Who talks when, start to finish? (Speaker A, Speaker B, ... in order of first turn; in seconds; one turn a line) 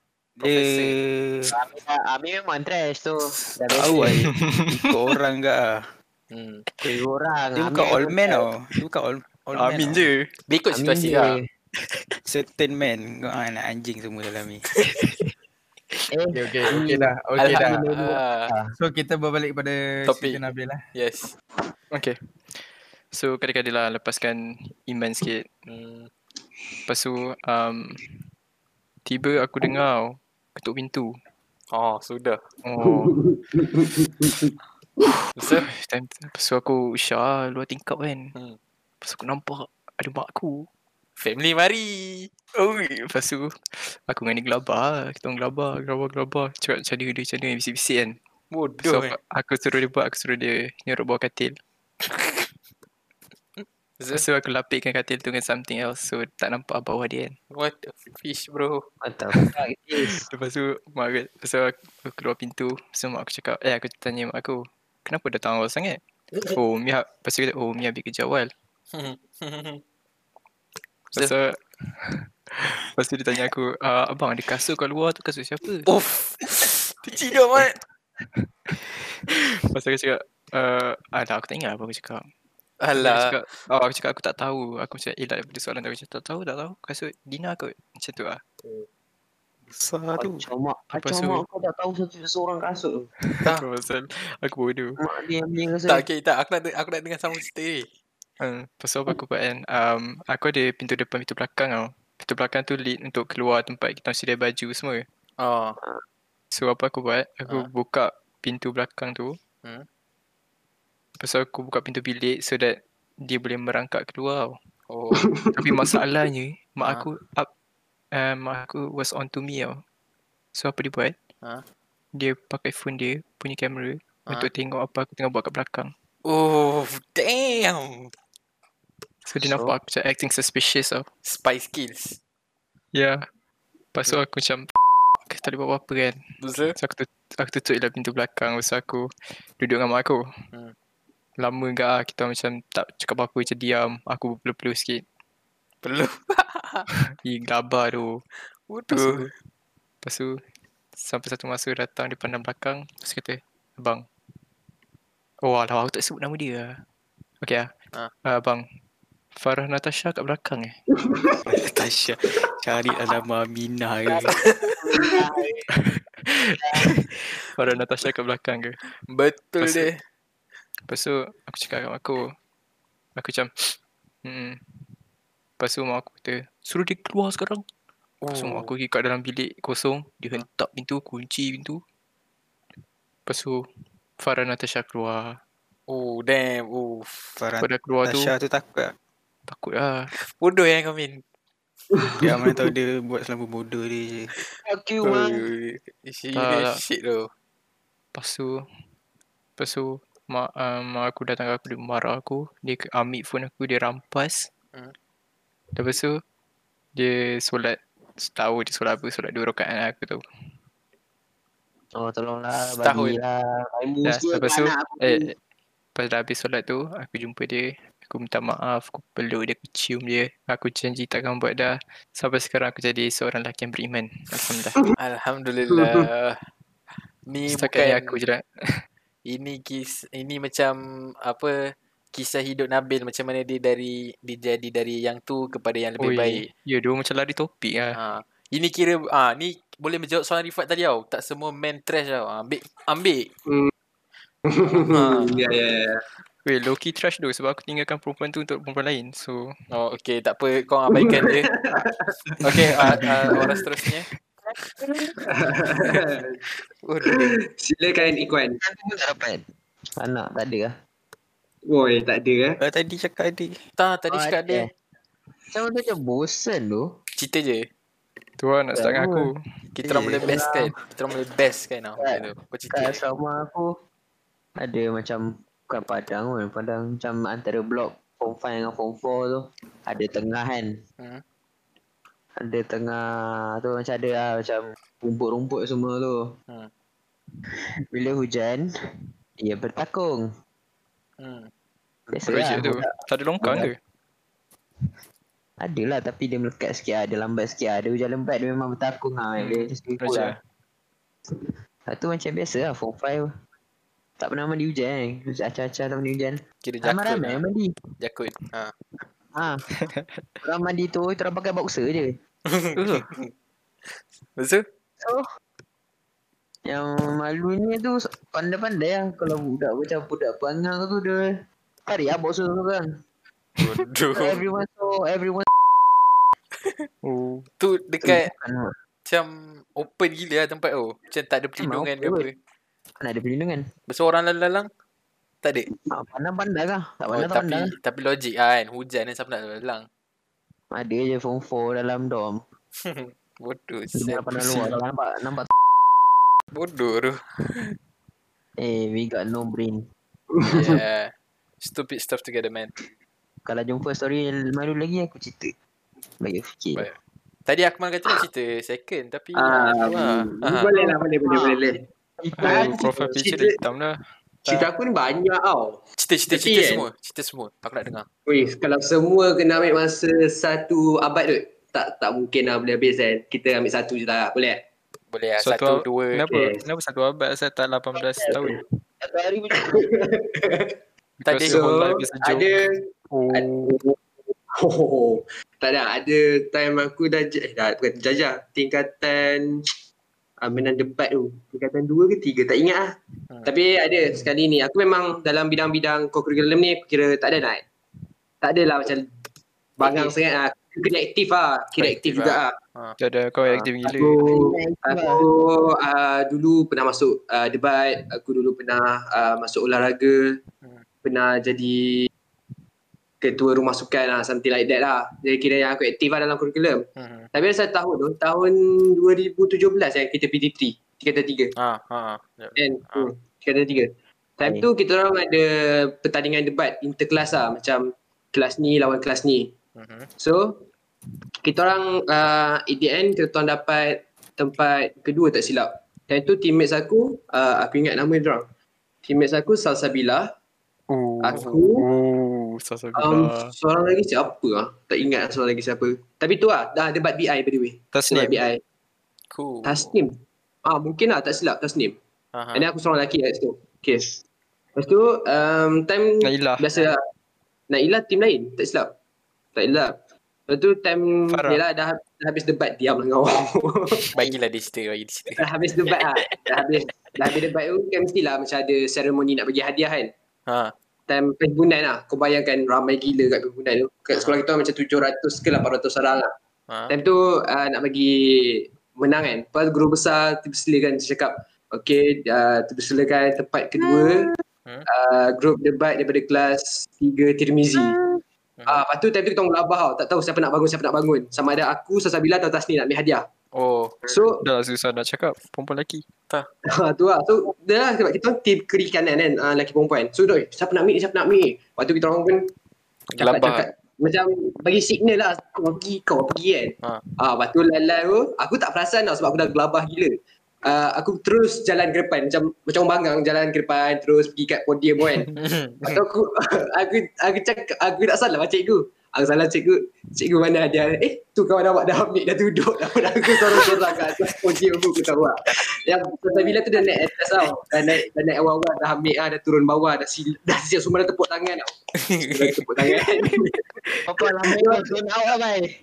Speaker A: 0.4-1.5
Speaker B: 0.4-1.0
Speaker C: 1.5-4.3
Speaker A: 3.3-5.9
Speaker D: 4.4-4.7
Speaker B: 6.3-6.7
Speaker C: 6.8-8.4
Speaker A: 7.5-10.1
Speaker D: 9.6-10.3
Speaker B: 10.5-11.4
Speaker C: 10.7-11.5
Speaker A: 12.3-14.7
Speaker C: 16.1-18.7
Speaker E: 16.3-17.9
Speaker B: 17.4-18.5
Speaker E: 18.8-20.8
Speaker B: 20.1-20.4
Speaker B: 20.9-21.3
Speaker D: 21.9-22.6
Speaker D: 23.1-25.4
Speaker B: 25.7-26.1
Speaker D: 26.9-28.1
Speaker D: 29.1-31.1
Speaker B: 31.7-32.4
Speaker D: 32.6-33.2
Speaker F: 32.8-34.5
Speaker D: 35.0-38.3
Speaker B: 35.4-35.7
Speaker D: 39.0-40.7
Speaker B: 41.2-42.3
Speaker D: 42.5-48.2
Speaker B: 48.5-49.2
Speaker D: 48.8-51.5
Speaker B: 53.6-54.2
Speaker D: 54.1-57.4
Speaker B: 57.5-58.8
Speaker C: 59.0-60.3
Speaker D: 59.4-68.5
Speaker B: 68.9-69.8
Speaker D: 71.1-75.9
Speaker B: 75.9-77.7
Speaker D: 78.4-82.2
Speaker B: 82.8-83.4
Speaker D: 83.0-88.4
Speaker A: 89.7-90.5
Speaker C: 90.2-93.1
Speaker D: 91.0-91.4
Speaker D: 93.3-95.0
Speaker C: 95.0-96.0
Speaker B: 95.9-97.9
Speaker D: 98.4-105.0
Speaker B: 105.4-105.8
Speaker D: 106.5-109.4
Speaker D: 111.2-114.6
Speaker B: 114.9-115.3
Speaker F: 115.1-116.0
Speaker D: 115.6-117.5
Speaker D: 118.1-119.8
Speaker D: 120.5-121.2
Speaker D: 122.2-125.9
Speaker B: 126.2-128.1
Speaker D: 129.3-131.1
Speaker C: 129.4-129.7
Speaker B: 131.2-132.2
Speaker D: 132.9-133.2
Speaker D: 133.9-134.7
Speaker D: 135.3-136.2
Speaker B: 136.4-136.7
Speaker D: 136.8-139.1
Speaker D: 139.6-140.2
Speaker D: 141.4-145.0
Speaker B: 145.8-146.9
Speaker D: 147.2-148.2
Speaker B: 148.7-149.3
Speaker D: 148.9-149.3
Speaker D: 150.0-150.4
Speaker D: 151.0-154.0
Speaker D: 155.4-156.8
Speaker D: 158.3-158.7
Speaker D: 159.4-160.8
Speaker F: 160.9-161.4
Speaker A: 161.5-164.3
Speaker C: 164.1-165.8
Speaker B: 164.3-164.8
Speaker D: 166.2-168.7
Speaker C: 166.6-166.9
Speaker B: 169.1-170.0
Speaker D: 169.6-169.9
Speaker D: 170.9-172.3
Speaker D: 173.2-173.7
Speaker D: 174.2-174.6
Speaker D: 175.6-177.6
Speaker B: 178.2-178.7
Speaker D: 178.3-181.8
Speaker D: 183.3-183.6
Speaker D: 184.2-185.4
Speaker B: 185.9-187.4
Speaker A: 187.4-188.9
Speaker D: 187.6-188.3
Speaker D: 189.5-190.1
Speaker B: 190.3-191.2
Speaker F: 191.9-192.5
Speaker A: 192.2-194.3
Speaker C: 194.7-195.4
Speaker B: 195.0-197.3
Speaker D: 196.4-196.8
Speaker D: 198.2-198.6
Speaker D: 199.6-204.5
Speaker D: 205.8-206.2
Speaker D: 207.0-210.2
Speaker C: 212.0-215.3
Speaker B: 212.8-213.2
Speaker D: 214.1-215.3
Speaker D: 216.0-224.8
Speaker B: 225.0-226.4
Speaker F: 225.7-226.1
Speaker B: 227.3-228.2
Speaker D: 227.5-228.4
Speaker B: 229.3-236.4
Speaker D: 236.0-238.0
Speaker B: 237.9-243.3
Speaker F: 243.5-243.7
Speaker F: 244.4-246.0
Speaker B: 244.7-245.4
Speaker D: 246.4-249.5
Speaker B: 249.7-251.5
Speaker F: 250.9-252.1
Speaker B: 252.4-254.1
Speaker D: 252.6-253.1
Speaker C: 254.8-255.1
Speaker F: 255.2-256.4
Speaker B: 256.8-257.4
Speaker F: 257.1-258.6
Speaker C: 258.0-259.4
Speaker C: 260.0-260.7
Speaker F: 261.7-262.6
Speaker A: 262.6-263.6
Speaker B: 263.8-264.7
Speaker C: 264.1-264.7
Speaker C: 265.5-266.9
Speaker B: 267.2-267.7
Speaker D: 268.4-269.4
Speaker C: 268.7-269.3
Speaker B: 269.7-273.0
Speaker A: 269.8-270.3
Speaker C: 270.2-270.7
Speaker C: 272.0-273.7
Speaker C: 274.6-280.7
Speaker C: 282.4-286.3
Speaker C: 287.9-288.6
Speaker C: 289.4-290.3
Speaker B: 291.2-291.5
Speaker C: 292.1-292.9
Speaker D: 292.3-293.8
Speaker C: 293.4-293.7
Speaker C: 295.6-300.4
Speaker D: 299.4-300.4
Speaker C: 301.3-303.3
Speaker C: 304.2-307.7
Speaker B: 306.6-307.4
Speaker B: 308.0-308.7
Speaker C: 309.4-309.6
Speaker D: 309.8-310.2
Speaker C: 310.4-312.2
Speaker B: 312.5-313.3
Speaker D: 312.8-313.1
Speaker B: 314.4-314.6
Speaker C: 316.7-321.2
Speaker C: 321.9-322.9
Speaker B: 323.6-324.4
Speaker C: 324.1-325.5
Speaker D: 327.0-327.5
Speaker B: 327.6-328.3
Speaker C: 328.0-328.7
Speaker B: 329.1-332.3
Speaker C: 331.6-332.3
Speaker C: 333.0-333.7
Speaker B: 333.9-334.7
Speaker C: 335.9-337.7
Speaker B: 337.1-339.9
Speaker C: 340.7-342.4
Speaker B: 342.8-344.8
Speaker C: 343.9-345.5
Speaker B: 346.5-347.6
Speaker C: 348.6-349.8
Speaker F: 350.3-350.8
Speaker B: 350.5-351.1
Speaker B: 351.6-352.7
Speaker C: 353.5-355.5
Speaker C: 356.2-356.9
Speaker B: 356.8-360.7
Speaker F: 359.4-361.9
Speaker C: 360.8-361.6
Speaker C: 362.2-362.9
Speaker D: 362.4-364.7
Speaker F: 362.4-363.6
Speaker F: 364.4-366.9
Speaker B: 366.0-368.1
Speaker F: 368.3-374.6
Speaker B: 375.1-376.3
Speaker D: 375.4-378.5
Speaker F: 376.3-376.6
Speaker C: 378.0-378.3
Speaker F: 378.3-378.6
Speaker C: 379.0-379.9
Speaker F: 379.6-380.8
Speaker B: 381.2-381.7
Speaker D: 381.2-382.5
Speaker F: 381.5-389.5
Speaker D: 383.1-383.7
Speaker F: 390.4-392.9
Speaker F: 393.4-397.6
Speaker F: 398.4-399.1
Speaker F: 399.8-402.6
Speaker C: 399.8-400.1
Speaker B: 401.8-403.0
Speaker D: 403.0-404.2
Speaker F: 403.8-410.4
Speaker C: 404.2-405.2
Speaker F: 411.0-412.1
Speaker F: 413.2-421.5
Speaker B: 417.0-417.3
Speaker B: 421.6-423.1
Speaker F: 422.6-429.6
Speaker B: 429.8-430.1
Speaker F: 430.2-430.7
Speaker F: 431.4-438.5
Speaker F: 439.0-440.3
Speaker D: 440.9-443.5
Speaker F: 441.2-441.9
Speaker F: 442.9-448.6
Speaker D: 447.9-448.4
Speaker B: 449.3-449.9
Speaker F: 449.6-452.0
Speaker B: 452.3-452.7
Speaker F: 452.5-454.2
Speaker F: 454.8-457.0
Speaker D: 456.2-456.7
Speaker F: 457.7-458.9
Speaker F: 459.6-464.3
Speaker D: 461.3-461.6
Speaker B: 464.1-465.4
Speaker F: 465.4-470.1
Speaker D: 465.9-466.4
Speaker B: 470.5-470.7
Speaker F: 471.1-476.3
Speaker B: 474.1-474.4
Speaker F: 476.9-484.3
Speaker C: 483.8-484.3
Speaker F: 484.9-488.0
Speaker C: 487.8-488.2
Speaker B: 488.6-488.9
Speaker F: 488.7-493.2
Speaker B: 493.6-494.0
Speaker F: 494.1-494.4
Speaker D: 494.4-496.1
Speaker F: 496.7-502.5
Speaker B: 503.1-503.7
Speaker F: 503.2-533.6
Speaker B: 515.4-516.0
Speaker B: 532.0-532.5
Speaker C: 534.1-535.7
Speaker F: 534.5-534.9